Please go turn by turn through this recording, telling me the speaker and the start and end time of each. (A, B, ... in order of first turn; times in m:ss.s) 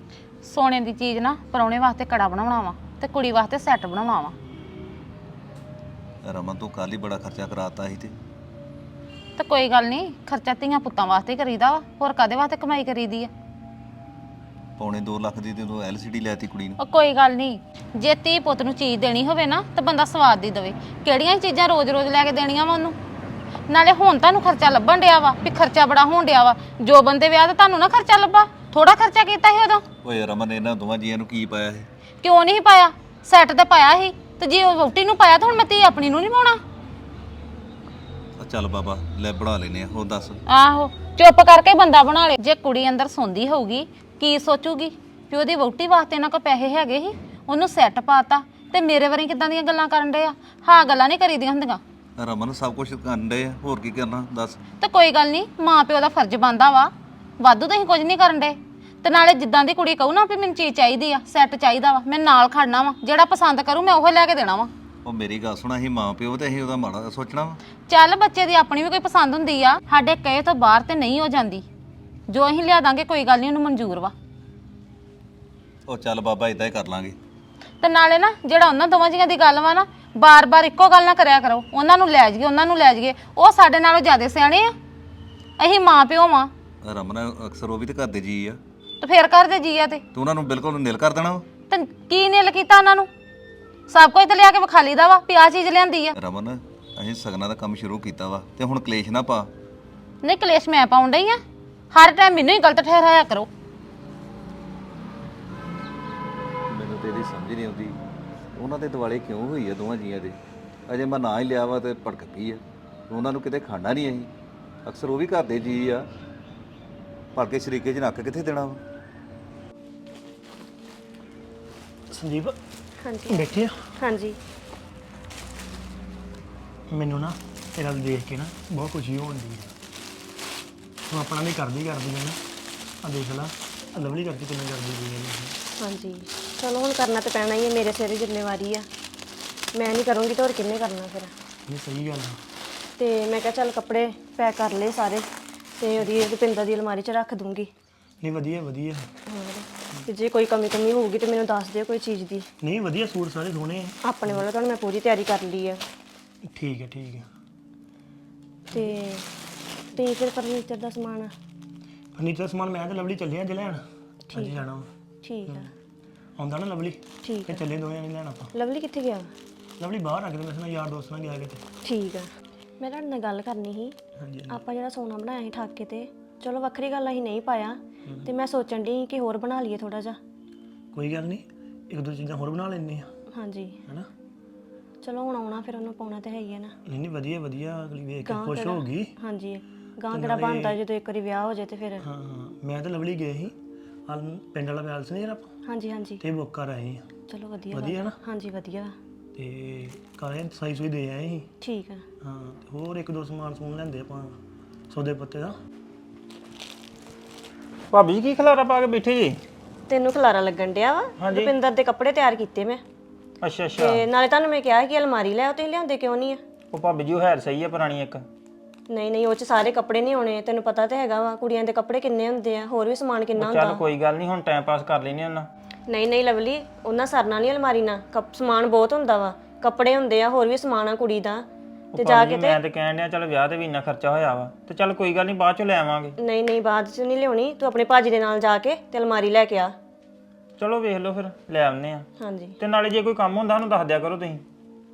0:00.4-0:04.3 A
0:06.2-0:08.1 B
0:09.4-0:13.3 A
0:14.8-0:16.8 B
0:16.8-0:23.0 A
0:23.7-0:29.8 A
0:30.0-0:31.9 B
0:32.2-0:36.6 A
0:38.4-0:40.4 B
0:40.5-0:51.8 A
0:52.2-0:54.6 B
0:54.8-1:04.7 A
1:05.0-1:07.6 B
1:07.9-1:11.6 A
1:12.3-1:14.1 A
1:15.9-1:17.2 B
1:17.8-1:24.7 A
1:25.6-1:26.5 A
1:26.8-1:28.6 B
1:29.0-1:30.0 A
1:30.1-1:31.4 B
1:31.7-1:33.1 A
1:33.9-1:36.1 A
1:36.2-1:39.5 B
1:40.2-1:41.4 A
1:41.9-1:43.5 A
1:46.7-1:47.9 B
1:48.6-1:50.4 B
1:50.9-1:54.3 B
1:54.8-1:56.1 B
1:57.3-1:58.8 B
2:02.1-2:02.6 C
2:03.0-2:04.4 D
2:03.3-2:03.7 C
2:06.9-2:09.7 C
2:11.1-2:12.4 C
2:13.0-2:15.6 C
2:15.8-2:18.8 D
2:19.7-2:21.3 D
2:21.7-2:22.4 C
2:23.0-2:25.3 D
2:25.8-2:27.7 D
2:28.2-2:29.1 C
2:29.3-2:32.5 D
2:32.6-2:34.4 C
2:34.0-2:35.8 D
2:36.4-2:37.3 C
2:38.7-2:38.9 C
2:38.7-2:39.3 D
2:39.9-2:41.3 D
2:42.1-2:44.9 C
2:44.3-2:44.6 D
2:45.2-2:45.7 D
2:46.4-2:48.5 C
2:47.2-2:47.6 D
2:48.5-2:49.3 D
2:49.8-2:51.6 C
2:51.8-2:52.3 D
2:52.8-2:54.0 D
2:54.2-2:54.6 C
2:54.5-3:00.2 D
3:00.9-3:03.1 C
3:03.3-3:03.8 D
3:05.0-3:06.7 D
3:06.8-3:09.1 C
3:08.2-3:12.0 D
3:10.1-3:10.8 C
3:12.0-3:13.5 C
3:14.1-3:15.5 C
3:15.6-3:16.2 D
3:16.2-3:17.0 C
3:17.3-3:18.9 D
3:17.7-3:18.2 C
3:19.4-3:21.5 C
3:21.6-3:22.0 D
3:22.2-3:24.4 C
3:24.9-3:25.5 C
3:27.9-3:29.4 E
3:29.9-3:32.8 D
3:31.2-3:31.5 E
3:33.4-3:34.0 E
3:33.8-3:36.4 D
3:36.7-3:38.2 E
3:38.9-3:43.8 D
3:43.3-3:45.5 E
3:45.9-3:51.4 D
3:51.9-3:56.1 E
3:52.0-3:52.6 D
3:56.2-3:59.7 D
4:00.6-4:02.1 E
4:02.2-4:02.6 D
4:02.6-4:04.4 E